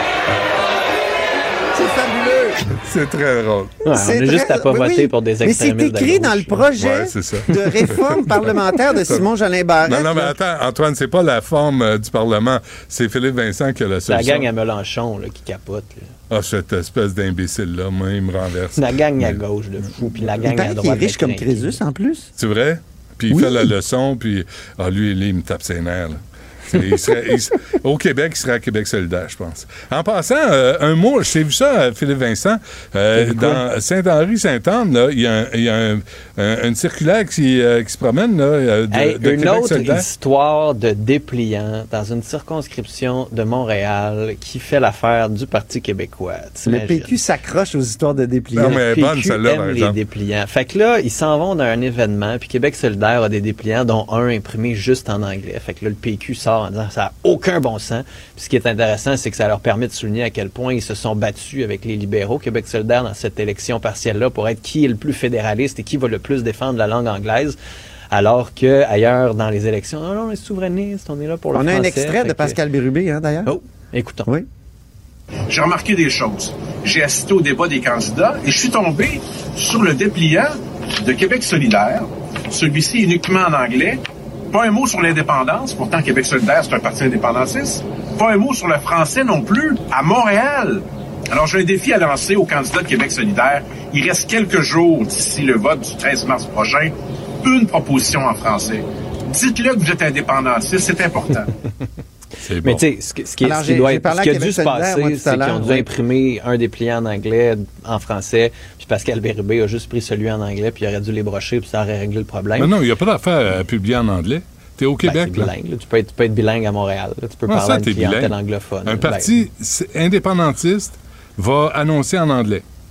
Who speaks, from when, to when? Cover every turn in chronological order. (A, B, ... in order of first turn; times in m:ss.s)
0:01.7-0:02.6 A
0:02.8-0:03.8 B
0:03.8-0:06.6 C
0:03.9-0:10.3 A
0:06.8-0:08.4 B
0:09.8-0:14.5 B
0:14.1-0:16.1 C
0:16.3-0:19.4 B
0:18.8-0:21.8 C
0:20.4-0:22.3 A
0:22.4-0:40.1 B
0:23.3-0:23.7 A
0:33.1-0:33.6 C
0:38.9-0:47.2 C
0:46.6-0:48.8 A
0:48.5-0:50.0 B
0:48.6-1:07.6 C
1:08.1-1:12.6 C
1:11.5-1:13.5 A
1:13.4-1:14.4 C
1:15.5-1:24.0 D
1:24.5-1:41.5 D
1:42.4-1:42.8 B
1:42.6-1:52.7 C
1:43.4-1:45.8 A
1:52.6-1:55.5 B
1:55.0-1:59.4 C
1:57.5-1:58.3 B
1:58.8-2:02.6 B